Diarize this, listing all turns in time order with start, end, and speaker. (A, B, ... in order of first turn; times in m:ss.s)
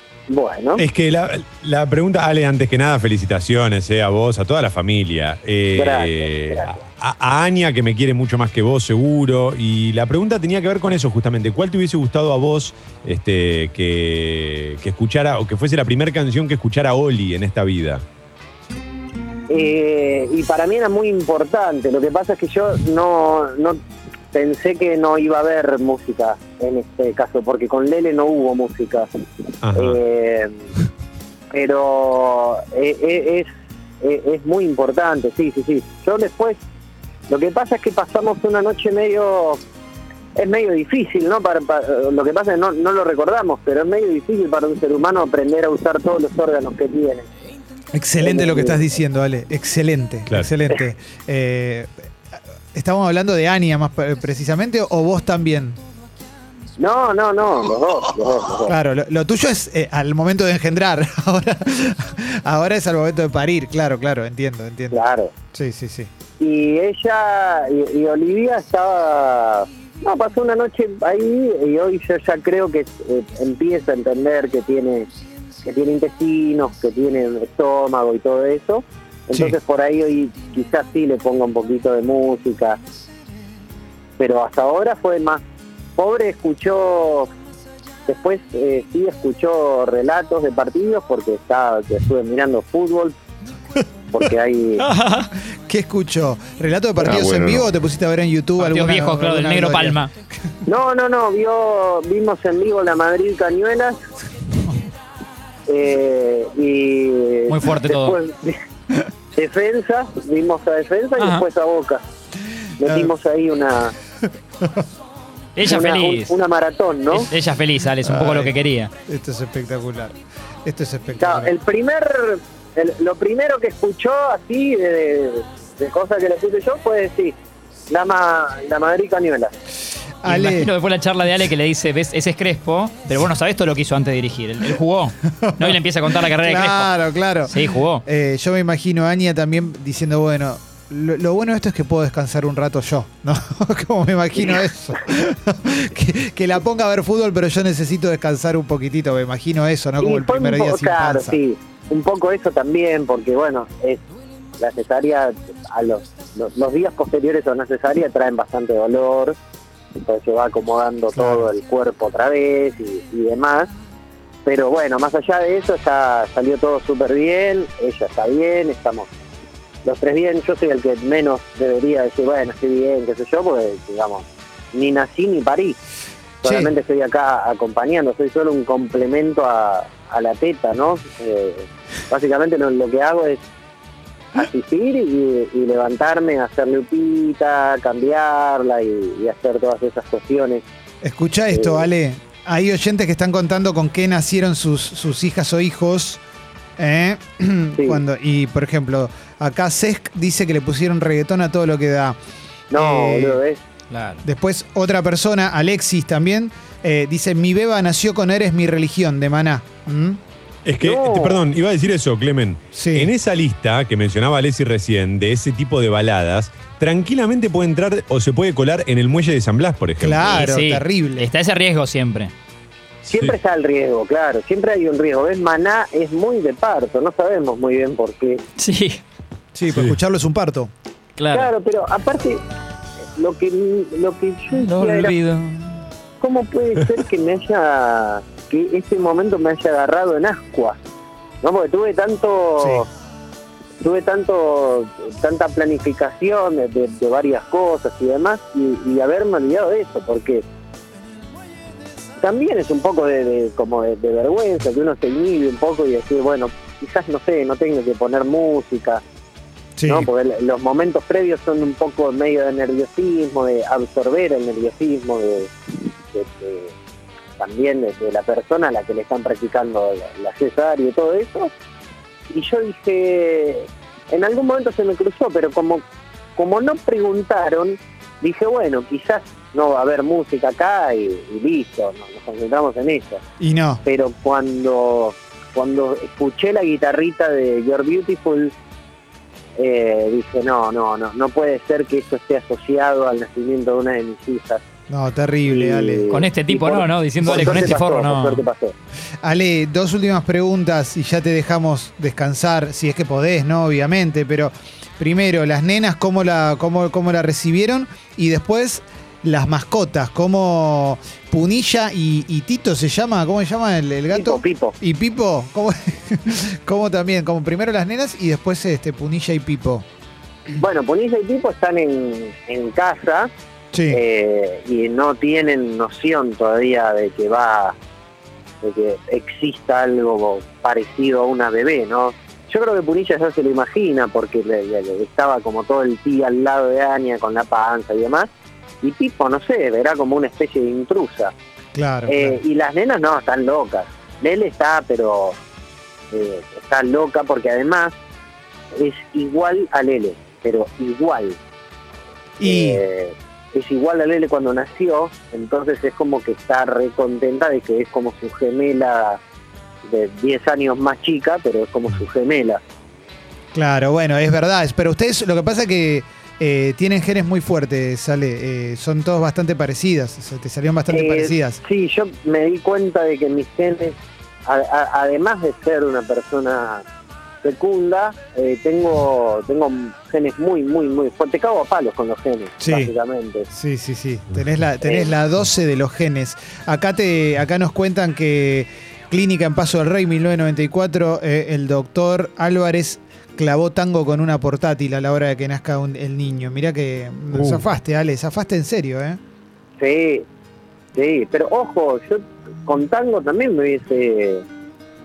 0:00.3-0:00.8 A
0:00.8-0:18.0 B
0:05.8-0:06.8 A
0:19.5-0:23.8 A
0:24.3-0:29.1 A
0:29.6-0:30.0 B
0:29.7-0:30.6 A
0:31.5-0:33.5 A
0:34.0-0:36.6 A
0:37.3-0:39.6 A
0:40.4-0:47.3 A
0:47.9-0:51.9 C
0:48.2-0:48.8 A
0:52.7-0:55.8 C
0:56.8-0:58.7 A
0:58.6-1:05.0 C
1:04.9-1:05.3 A
1:05.5-1:06.1 C
1:06.4-1:15.1 A
1:15.6-1:22.8 A
1:24.2-1:25.4 A
1:26.0-1:27.3 A
1:28.1-1:33.2 A
1:34.1-1:34.8 A
1:34.8-1:35.3 D
1:35.7-1:40.0 C
1:37.0-1:37.7 B
1:38.6-1:40.1 D
1:40.6-1:44.0 A
1:45.7-1:48.6 A
1:47.5-1:48.2 D
1:49.3-1:52.0 A
1:51.2-1:51.4 D
1:52.8-1:53.9 A
1:55.6-1:56.3 D
1:55.6-1:57.3 A
1:57.1-1:58.9 D
1:58.0-1:58.5 C
1:59.0-2:01.5 C
2:01.2-2:07.3 A
2:07.9-2:09.5 A
2:10.2-2:10.7 C
2:10.2-2:16.9 D
2:15.3-2:31.4 C
2:17.5-2:18.0 D
2:30.0-2:34.0 A
2:34.6-2:39.4 A
2:40.0-2:43.7 A
2:41.2-2:41.5 C
2:44.4-2:49.1 A
2:49.8-2:55.8 A
2:56.4-3:03.4 A
2:56.4-2:56.7 C
3:04.3-3:10.6 A
3:11.0-3:16.2 C
3:11.5-3:11.9 A
3:16.8-3:22.2 C
3:22.7-3:23.6 A
3:22.7-3:23.4 C
3:23.9-3:24.2 D
3:24.2-3:30.2 C
3:30.6-3:40.4 B
3:30.8-3:31.4 A
3:32.7-3:33.1 C
3:40.0-3:41.3 C
3:40.2-3:42.3 D
3:43.1-3:48.4 A
3:43.1-3:43.4 B
3:48.6-3:49.0 D
3:49.5-3:50.7 C
3:49.7-3:50.0 B
3:51.2-3:51.5 D
3:51.3-3:52.4 A
3:53.2-3:55.1 A
3:54.5-3:55.8 D
3:56.2-4:00.8 A
4:01.4-4:02.8 A
4:02.6-4:02.8 C
4:03.8-4:10.4 A
4:12.2-4:19.0 A
4:19.8-4:20.1 C
4:19.9-4:26.7 A
4:27.4-4:31.5 A
4:32.3-4:35.8 A
4:36.4-4:43.2 A
4:43.4-4:43.8 C
4:43.8-4:48.5 A
4:49.6-4:54.6 A
4:54.9-4:56.0 C
4:55.5-4:58.7 A
4:56.1-4:58.4 D
4:57.3-4:57.6 C
4:59.2-5:19.8 C
5:14.1-5:14.8 A
5:20.6-5:23.3 A
5:23.7-5:24.0 C
5:23.9-5:27.8 A
5:28.6-5:38.3 A
5:38.8-5:41.3 A
5:41.7-5:42.4 C
5:42.1-5:45.4 A
5:46.1-5:47.9 A
5:48.7-5:51.4 A
5:52.4-5:52.8 C
5:52.4-5:59.2 A
5:59.8-6:02.6 A
6:03.5-6:11.6 C
6:10.9-6:16.8 A
6:17.4-6:23.5 A
6:22.6-6:22.9 C
6:23.5-6:39.2 C
6:24.8-6:25.1 A
6:37.3-6:37.6 B
6:39.8-6:40.2 A
6:40.9-6:44.4 A